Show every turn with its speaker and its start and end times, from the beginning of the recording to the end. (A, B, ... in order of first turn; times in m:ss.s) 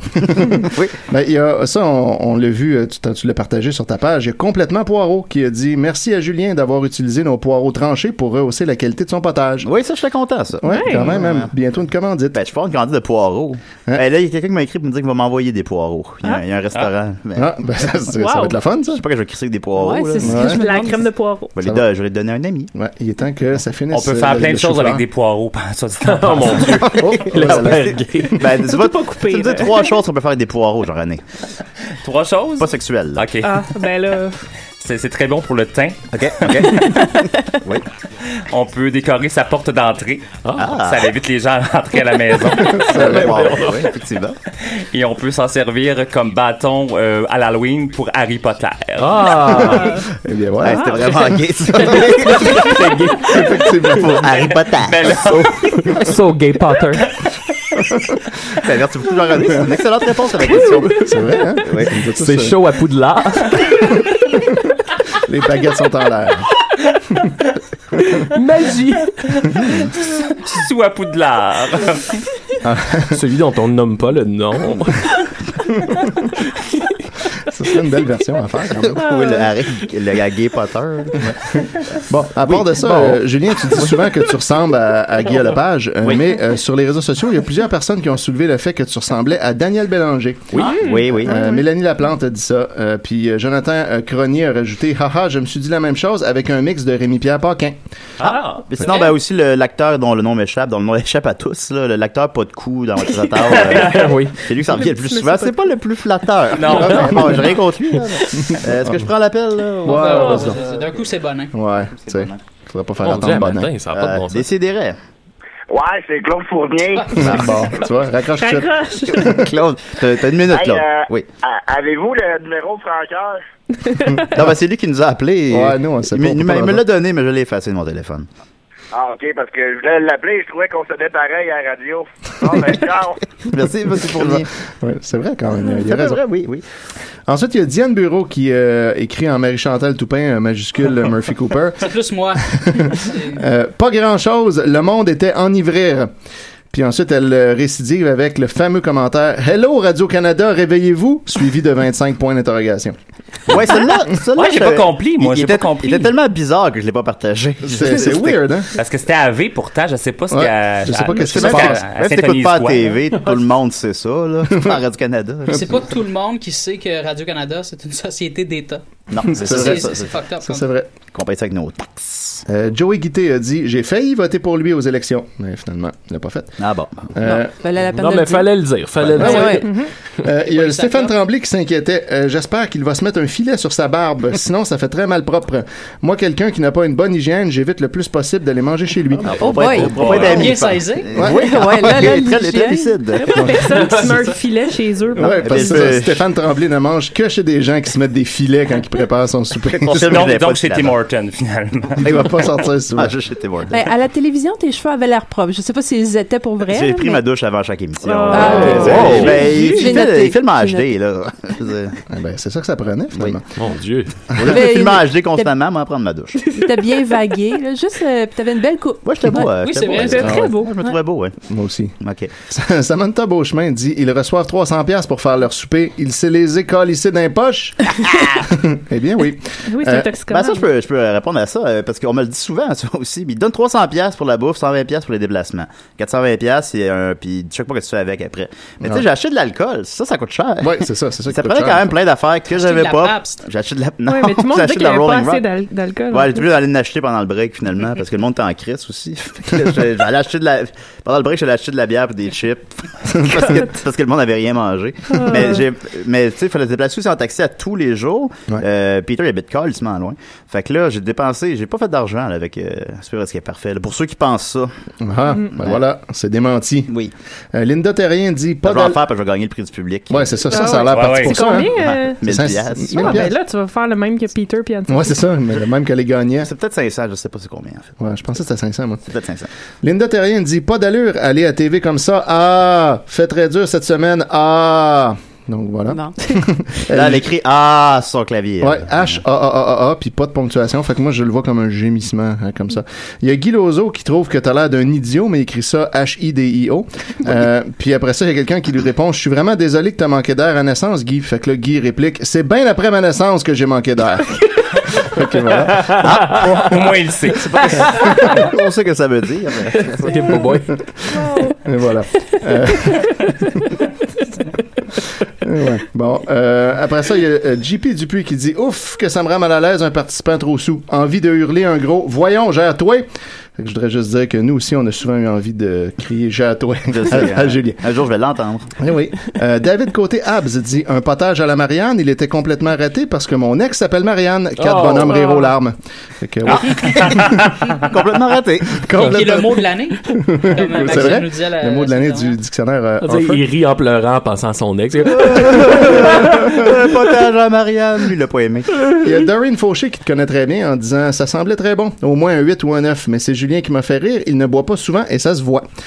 0:00.2-0:09.7 A
0:00.6-0:00.9 B
0:09.6-0:11.5 B
0:10.6-0:11.2 C
0:10.6-0:12.4 A
0:12.3-0:17.6 B
0:17.4-0:19.0 A
0:18.1-0:18.6 C
0:18.9-0:20.6 B
0:19.8-0:21.0 D
0:20.2-0:20.6 A
0:20.2-0:21.6 C
0:21.5-0:22.7 B
0:21.6-0:21.8 A
0:22.7-0:25.0 A
0:23.9-0:26.7 E
0:26.0-0:28.5 F
0:26.6-0:31.2 B
0:26.7-0:28.4 A
0:28.6-0:29.9 C
0:32.0-0:33.7 E
0:32.6-0:33.3 B
0:33.4-0:34.4 C
0:34.8-0:37.2 E
0:36.1-0:37.8 B
0:38.4-0:42.9 E
0:40.4-0:40.7 F
0:40.6-0:41.1 B
0:42.7-0:43.4 A
0:42.8-0:44.4 B
0:42.9-0:43.9 F
0:44.6-0:49.3 E
0:49.0-0:50.0 F
0:49.6-0:54.2 A
0:50.6-0:55.2 B
0:51.8-0:54.1 F
0:54.3-0:55.8 E
0:55.1-0:57.1 F
0:58.6-1:02.0 B
1:00.6-1:00.8 F
1:01.0-1:02.6 A
1:02.1-1:03.7 F
1:03.8-1:04.4 A
1:05.2-1:06.5 A
1:08.3-1:09.1 F
1:09.2-1:09.7 E
1:10.3-1:12.2 E
1:12.6-1:13.2 A
1:13.1-1:15.1 F
1:17.4-1:19.0 A
1:18.8-1:21.4 B
1:19.1-1:19.4 C
1:21.6-1:37.7 A
1:22.4-1:23.2 B
1:26.0-1:26.3 B
1:30.6-1:31.6 C
1:30.6-1:31.4 B
1:38.2-1:38.6 E
1:38.6-1:50.8 B
1:43.6-1:44.0 E
1:43.7-1:44.6 F
1:44.6-1:45.6 C
1:46.5-1:47.3 E
1:46.9-1:47.6 F
1:48.2-1:49.1 A
1:49.8-1:50.6 A
1:49.8-1:51.5 G
1:51.5-1:53.7 A
1:52.0-1:52.4 B
1:53.0-1:54.5 F
1:53.9-1:55.0 B
1:55.7-1:57.2 H
1:57.1-1:59.4 A
1:57.2-1:57.5 B
1:58.4-1:59.3 C
1:59.1-2:01.3 B
2:00.5-2:03.4 H
2:03.9-2:04.2 C
2:04.3-2:08.3 B
2:05.5-2:06.8 A
2:08.9-2:13.2 H
2:13.4-2:14.5 B
2:14.0-2:16.2 A
2:15.7-2:16.6 B
2:17.3-2:21.9 A
2:21.8-2:23.4 G
2:22.5-2:26.1 A
2:26.7-2:32.9 A
2:33.5-2:38.5 B
2:34.3-2:36.1 E
2:37.6-2:38.7 A
2:38.8-2:43.0 E
2:40.3-2:41.8 A
2:41.1-2:45.9 B
2:43.1-2:43.4 F
2:45.5-2:50.6 G
2:49.1-2:50.2 B
2:49.3-2:50.9 A
2:51.1-2:52.4 B
2:52.5-2:56.6 A
2:56.6-2:57.1 B
2:57.1-2:57.5 A
2:57.2-2:58.6 D
2:57.8-2:59.8 F
2:59.0-2:59.5 B
2:59.2-2:59.4 A
2:59.3-2:59.7 D
2:59.5-2:59.9 C
3:00.2-3:09.8 A
3:00.4-3:01.1 G
3:09.2-3:13.6 B
3:09.4-3:10.4 D
3:09.9-3:10.4 E
3:10.0-3:11.1 G
3:11.1-3:12.1 A
3:11.2-3:13.0 D
3:13.1-3:15.7 C
3:13.3-3:13.7 A
3:13.7-3:14.4 F
3:15.1-3:20.2 A
3:15.4-3:16.2 B
3:19.7-3:21.0 B
3:19.9-3:22.0 E
3:22.0-3:23.1 A
3:22.9-3:23.8 B
3:23.7-3:27.2 D
3:26.6-3:32.0 B
3:28.0-3:29.8 C
3:28.3-3:30.8 D
3:28.4-3:29.7 F
3:28.7-3:29.2 A
3:32.1-3:33.5 A
3:33.6-3:34.5 F
3:34.3-3:36.5 B
3:34.5-3:35.5 D
3:36.5-3:39.5 D
3:39.0-3:41.3 B
3:39.3-3:40.9 C
3:39.6-3:40.2 G
3:40.2-3:40.5 A
3:41.5-3:50.1 A
3:42.0-3:42.3 B
3:49.7-3:50.6 C
3:50.3-4:05.4 B
4:00.6-4:01.8 A
4:02.5-4:03.4 G
4:04.0-4:06.5 C
4:06.1-4:24.7 B
4:15.1-4:15.6 C
4:25.0-4:26.9 A
4:25.5-4:25.8 B
4:27.5-4:29.0 A
4:28.6-4:33.3 B
4:30.1-4:33.3 A
4:30.4-4:32.3 C
4:30.9-4:31.4 E
4:32.9-4:35.2 C
4:34.9-4:36.5 A
4:36.4-4:37.9 B
4:38.0-4:39.0 A
4:39.1-4:39.5 B
4:39.8-4:47.2 A
4:45.9-4:46.2 D
4:46.9-4:49.2 B
4:48.6-5:06.7 A
5:05.9-5:06.5 F
5:06.0-5:06.7 B
5:06.6-5:07.6 E
5:07.5-5:10.4 B
5:07.8-5:08.3 F
5:07.8-5:08.5 A
5:09.7-5:10.8 F
5:11.1-5:13.3 A
5:11.1-5:11.5 C
5:15.4-5:27.8 A
5:26.9-5:28.7 B
5:28.8-5:37.7 A
5:34.6-5:35.5 F
5:36.5-5:37.0 B
5:37.8-5:38.8 B
5:38.7-5:43.4 A
5:39.0-5:42.4 G
5:43.0-5:46.8 F
5:45.1-5:48.8 B
5:45.8-5:46.6 A
5:49.0-5:55.6 A